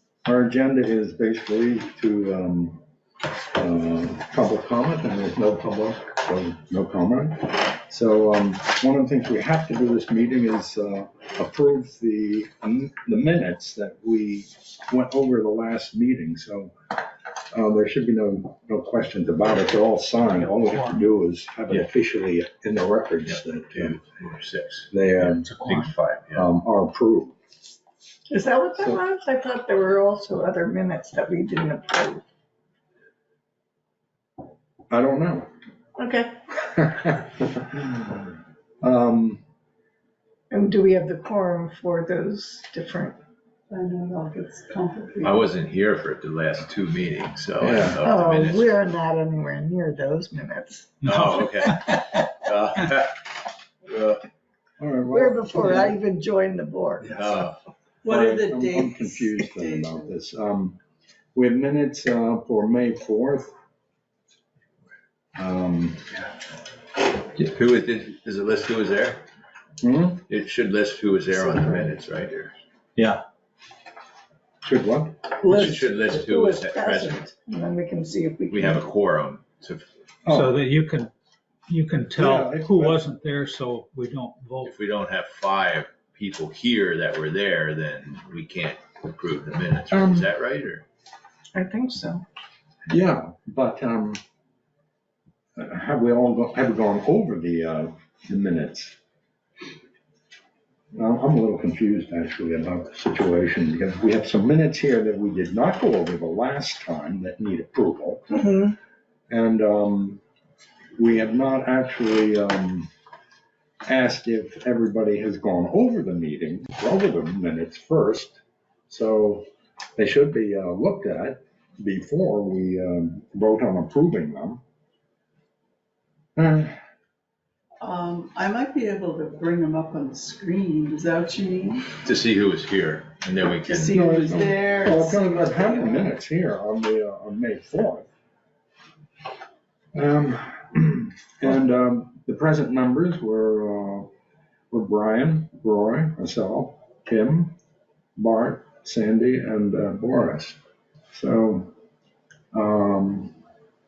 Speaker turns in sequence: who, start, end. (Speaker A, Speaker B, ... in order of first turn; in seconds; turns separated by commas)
Speaker A: 0.2-2.8, Speaker A: 3.5-16.7, Speaker A: 17.5-24.0, Speaker B: 23.3-26.5, Speaker A: 24.9-25.6, Speaker A: 26.3-27.4, Speaker C: 28.3-32.2, Speaker A: 34.9-35.5, Speaker C: 36.0-36.4, Speaker A: 36.9-38.3, Speaker A: 38.8-39.4, Speaker C: 40.5-43.2, Speaker D: 43.7-45.5, Speaker B: 45.2-48.8, Speaker A: 47.6-48.0, Speaker C: 48.0-51.0, Speaker E: 51.0-52.0, Speaker B: 51.0-53.3, Speaker B: 53.9-54.2, Speaker A: 54.8-56.0, Speaker C: 55.1-57.3, Speaker B: 57.1-57.5, Speaker D: 58.0-60.1, Speaker A: 58.0-60.8, Speaker A: 61.4-63.5, Speaker A: 65.4-66.0, Speaker B: 67.4-69.2, Speaker A: 69.8-70.2, Speaker B: 70.3-72.5, Speaker E: 73.0-73.2, Speaker A: 74.6-75.2, Speaker C: 75.4-78.8, Speaker B: 75.5-77.2, Speaker B: 78.5-79.9, Speaker A: 80.3-80.6, Speaker E: 80.3-81.1, Speaker E: 81.7-84.7, Speaker A: 82.2-83.0, Speaker B: 84.6-90.8, Speaker A: 89.9-90.3, Speaker C: 91.5-92.2, Speaker A: 92.9-94.2, Speaker A: 95.6-99.0, Speaker A: 100.9-108.3, Speaker C: 108.3-108.8, Speaker A: 109.3-110.2, Speaker A: 111.0-112.9, Speaker A: 113.9-124.6, Speaker A: 126.4-126.8, Speaker D: 127.8-131.9, Speaker B: 132.0-134.0, Speaker D: 133.7-136.1, Speaker A: 133.9-138.1, Speaker A: 139.9-144.1, Speaker A: 144.7-147.6, Speaker A: 148.2-150.6, Speaker A: 151.1-151.7, Speaker A: 152.5-153.3